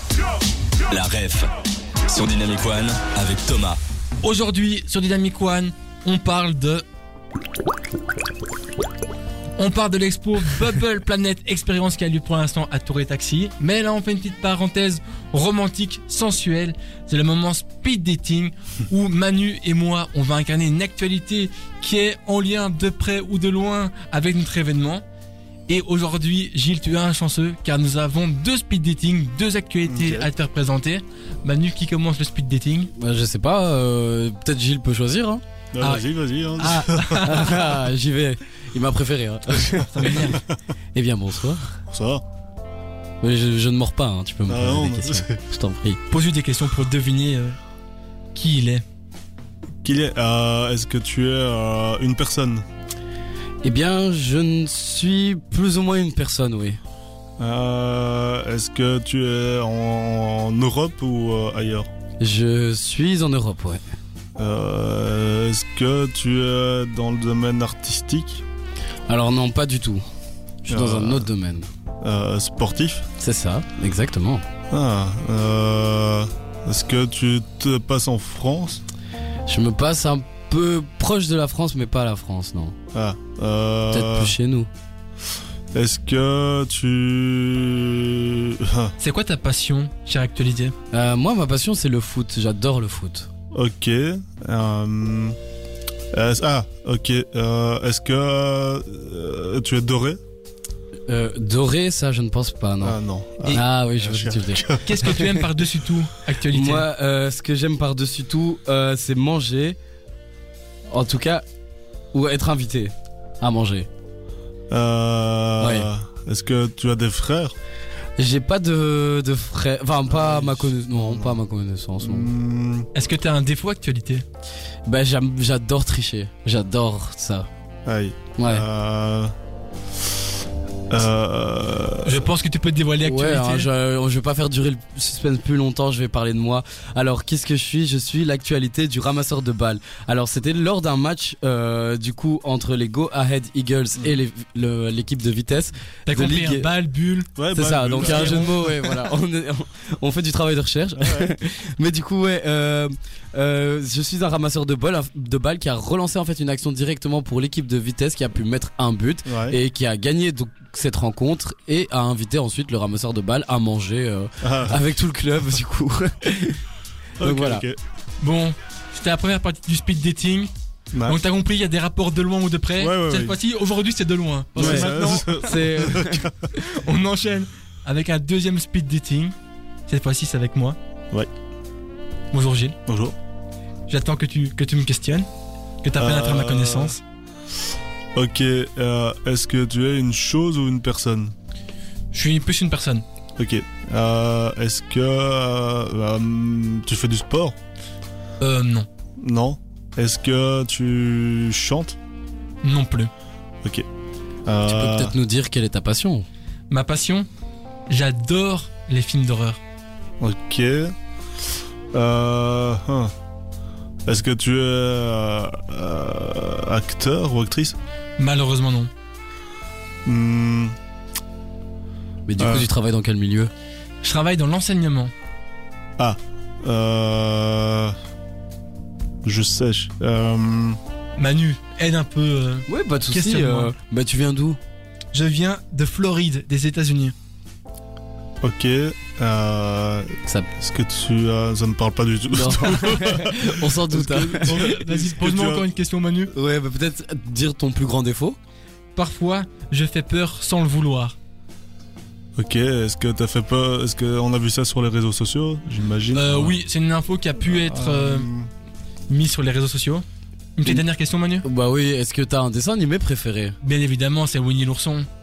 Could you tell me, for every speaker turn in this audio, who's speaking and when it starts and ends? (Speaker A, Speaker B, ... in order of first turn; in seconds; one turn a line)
Speaker A: 0.9-1.5
Speaker A: 2.1-3.8
Speaker B: 4.2-6.8
Speaker B: 9.6-25.0
Speaker B: 25.7-32.9
Speaker C: 29.9-30.3
Speaker D: 33.0-35.4
Speaker C: 35.7-37.6
Speaker B: 35.8-37.8
Speaker D: 37.2-40.4
Speaker B: 39.9-40.4
Speaker C: 40.0-40.4
Speaker D: 40.9-41.8
Speaker C: 41.9-42.2
Speaker D: 43.2-46.0
Speaker C: 44.5-45.4
Speaker B: 46.1-47.6
Speaker B: 48.3-48.8
Speaker C: 49.8-52.6
Speaker D: 53.6-56.8
Speaker C: 57.4-61.9
Speaker D: 62.2-63.8
Speaker C: 64.3-68.4
Speaker D: 69.1-70.0
Speaker D: 70.6-71.7
Speaker C: 70.7-71.3
Speaker C: 72.0-73.0
Speaker D: 73.2-74.4
Speaker C: 74.7-78.8
Speaker D: 79.5-82.8
Speaker C: 82.9-84.3
Speaker D: 83.9-84.7
Speaker C: 85.7-88.9
Speaker B: 89.0-90.7
Speaker D: 90.9-93.3
Speaker C: 93.5-95.3
Speaker C: 96.1-100.2
Speaker D: 101.1-105.2
Speaker C: 102.8-105.4
Speaker B: 104.8-106.9
Speaker D: 106.5-109.8
Speaker D: 110.9-111.4
Speaker D: 112.1-113.9
Speaker C: 114.7-117.5
Speaker D: 115.6-115.9
Speaker D: 118.2-122.3
Speaker C: 120.1-121.4
Speaker C: 122.0-122.9
Speaker B: 122.9-124.2
Speaker D: 124.8-127.5
Speaker C: 127.8-129.3
Speaker D: 128.4-128.7
Speaker C: 130.9-132.3
Speaker B: 132.0-133.7
Speaker D: 133.0-146.7
Speaker B: 146.1-148.5
Speaker C: 147.4-148.8
Speaker D: 147.5-166.6
Speaker C: 151.0-151.3
Speaker C: 159.2-159.6
Speaker C: 164.4-164.8
Speaker C: 167.2-167.8
Speaker D: 167.2-167.7
Speaker B: 168.2-170.5
Speaker C: 170.9-171.2
Speaker B: 171.1-175.6
Speaker C: 172.8-173.4
Speaker C: 174.5-176.3
Speaker D: 174.6-176.3
Speaker B: 176.5-179.3
Speaker B: 179.9-180.8
Speaker B: 182.3-182.8
Speaker C: 182.9-183.2
Speaker B: 183.9-185.3
Speaker B: 185.8-187.0
Speaker C: 185.9-186.9
Speaker C: 188.1-191.3
Speaker B: 192.1-193.0
Speaker C: 193.4-197.6
Speaker B: 198.4-198.9
Speaker C: 199.2-202.0
Speaker B: 202.6-203.1
Speaker C: 204.4-205.2
Speaker D: 204.6-206.3
Speaker B: 206.7-207.3
Speaker B: 207.9-209.6
Speaker C: 210.2-210.9
Speaker C: 211.9-213.1
Speaker C: 214.0-217.8
Speaker B: 218.2-218.9
Speaker C: 220.0-220.8
Speaker D: 222.3-223.5
Speaker C: 222.4-222.7
Speaker B: 224.0-225.1
Speaker C: 226.0-227.9
Speaker C: 229.2-230.8
Speaker B: 231.2-233.7
Speaker D: 232.7-234.6
Speaker B: 235.1-237.1
Speaker C: 238.4-245.7
Speaker D: 242.3-244.7
Speaker B: 244.4-246.3
Speaker D: 246.3-248.4
Speaker B: 248.9-251.2
Speaker C: 252.3-256.6
Speaker B: 256.1-258.3
Speaker C: 257.4-258.5
Speaker B: 259.1-260.0
Speaker B: 260.6-261.4
Speaker D: 261.4-263.6
Speaker B: 263.6-265.1